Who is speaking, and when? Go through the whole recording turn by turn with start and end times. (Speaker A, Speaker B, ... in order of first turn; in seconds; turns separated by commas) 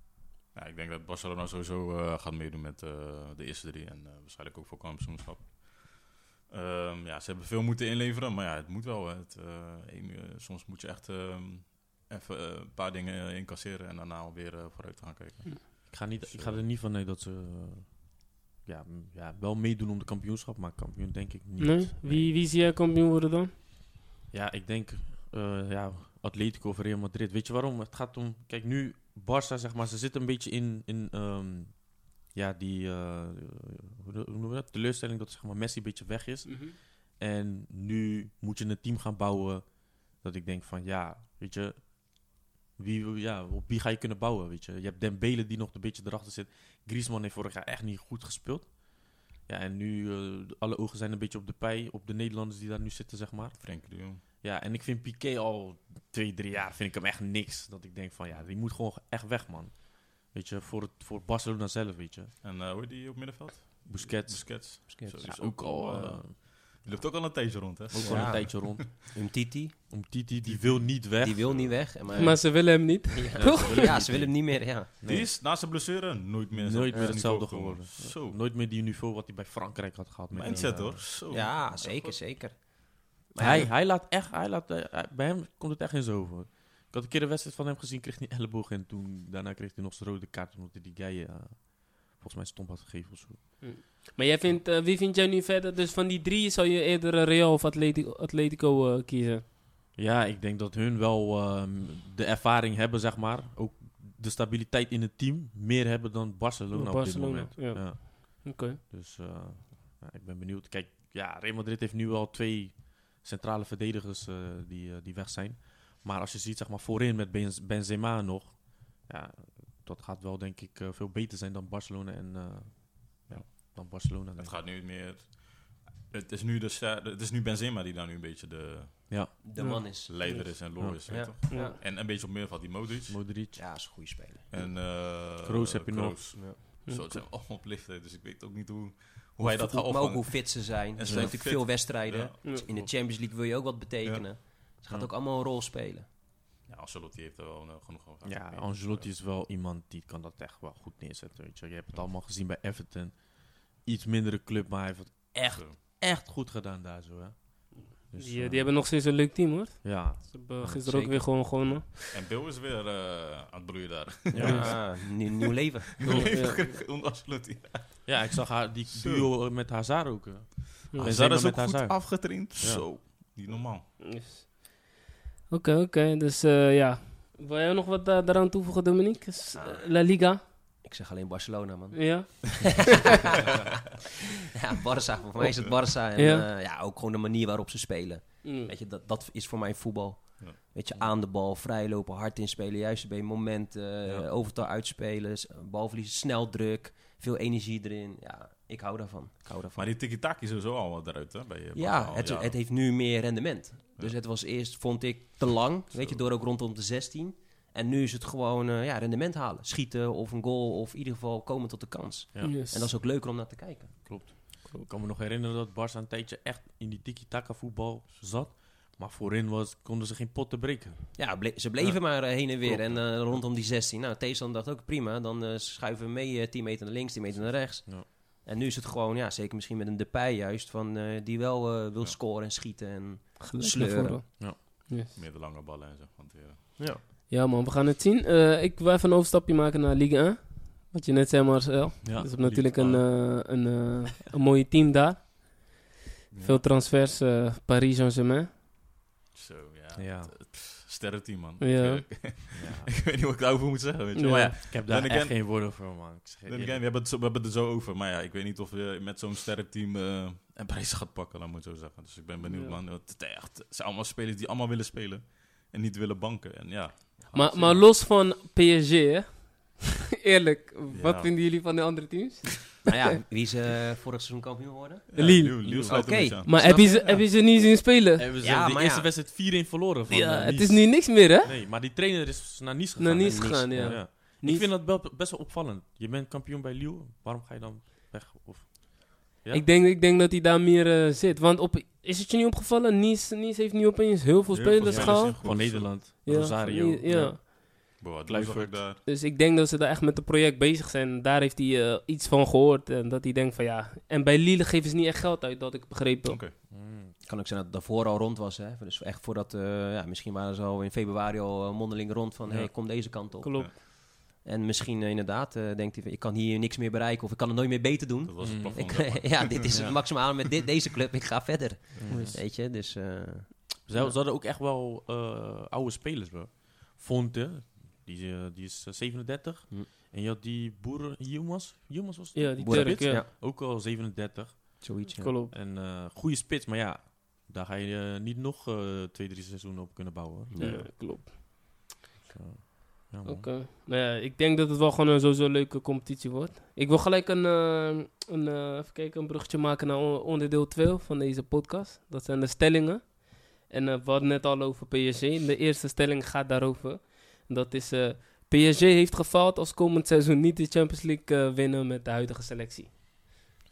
Speaker A: 0.5-16.6, Speaker B: 15.9-22.3, Speaker C: 21.6-23.5, Speaker B: 24.3-62.3, Speaker C: 36.5-36.8, Speaker A: 53.6-54.2, Speaker A: 62.4-68.8, Speaker B: 63.8-66.4, Speaker D: 64.9-65.3, Speaker B: 67.9-69.0, Speaker D: 67.9-69.9, Speaker B: 69.9-72.2, Speaker A: 70.4-72.2, Speaker D: 71.2-74.9, Speaker C: 72.1-74.0, Speaker B: 73.4-75.3, Speaker A: 75.0-78.4, Speaker B: 76.5-81.1, Speaker D: 76.9-77.2, Speaker A: 80.3-82.4, Speaker D: 81.3-83.7, Speaker B: 83.4-93.7, Speaker C: 93.6-99.4, Speaker B: 99.9-124.5, Speaker C: 106.7-108.8, Speaker A: 123.3-129.4, Speaker B: 129.1-129.8, Speaker D: 129.4-131.7, Speaker C: 129.6-130.5, Speaker A: 130.1-133.2, Speaker C: 131.5-131.8, Speaker B: 133.1-133.6, Speaker D: 133.5-134.7, Speaker A: 134.5-142.9, Speaker B: 134.7-136.7, Speaker C: 136.8-137.2, Speaker D: 139.4-146.1, Speaker B: 141.1-141.4, Speaker B: 142.7-142.9, Speaker A: 146.7-149.1, Speaker B: 148.2-158.7, Speaker A: 155.4-155.8, Speaker C: 157.9-162.1, Speaker B: 159.8-160.8, Speaker D: 160.8-161.3, Speaker A: 162.1-164.9, Speaker B: 164.3-164.7, Speaker D: 164.4-166.4, Speaker C: 164.4-164.7, Speaker A: 166.0-169.3, Speaker B: 166.0-166.3, Speaker C: 166.2-166.7, Speaker B: 168.1-173.0, Speaker C: 170.9-171.2, Speaker A: 171.0-173.8, Speaker C: 174.0-174.9, Speaker C: 175.5-180.4, Speaker D: 179.5-183.2, Speaker C: 181.9-183.0, Speaker D: 184.6-199.9, Speaker C: 186.1-186.5, Speaker C: 188.4-188.7, Speaker B: 194.0-194.3, Speaker A: 199.8-202.6, Speaker D: 201.7-214.2, Speaker A: 205.9-206.2, Speaker C: 212.4-212.9, Speaker B: 214.0-222.9, Speaker D: 221.2-234.2, Speaker C: 233.4-235.1, Speaker A: 235.1-236.8, Speaker C: 237.3-245.8, Speaker B: 242.0-243.0, Speaker A: 246.3-246.6, Speaker C: 246.4-248.5, Speaker A: 249.3-255.9, Speaker B: 249.9-250.3, Speaker C: 251.6-252.2, Speaker B: 252.5-252.9, Speaker C: 254.1-254.5, Speaker B: 254.7-256.8, Speaker A: 256.4-267.7, Speaker C: 262.4-262.8, Speaker B: 267.3-267.8, Speaker C: 267.3-272.9, Speaker A: 270.9-271.4, Speaker D: 272.8-277.0, Speaker A: 275.1-277.2, Speaker C: 275.1-278.3, Speaker B: 275.7-275.9, Speaker B: 278.1-289.6, Speaker D: 278.4-279.1, Speaker C: 280.1-281.5, Speaker C: 283.0-284.7, Speaker D: 283.2-284.1, Speaker C: 289.5-297.4, Speaker A: 294.5-296.0, Speaker B: 294.8-298.8, Speaker A: 298.0-299.0, Speaker C: 299.1-306.4, Speaker A: 306.2-306.5, Speaker B: 306.7-307.1, Speaker D: 307.2-324.1, Speaker B: 312.4-312.7, Speaker C: 313.4-313.7, Speaker A: 318.2-320.1, Speaker B: 318.4-320.0, Speaker B: 322.0-322.4, Speaker C: 322.1-322.4, Speaker B: 323.8-340.9, Speaker C: 332.3-333.2, Speaker D: 332.6-333.3, Speaker D: 334.8-335.3, Speaker C: 335.1-335.5, Speaker D: 340.5-340.9, Speaker C: 340.6-341.8, Speaker B: 342.3-343.5, Speaker C: 343.2-362.9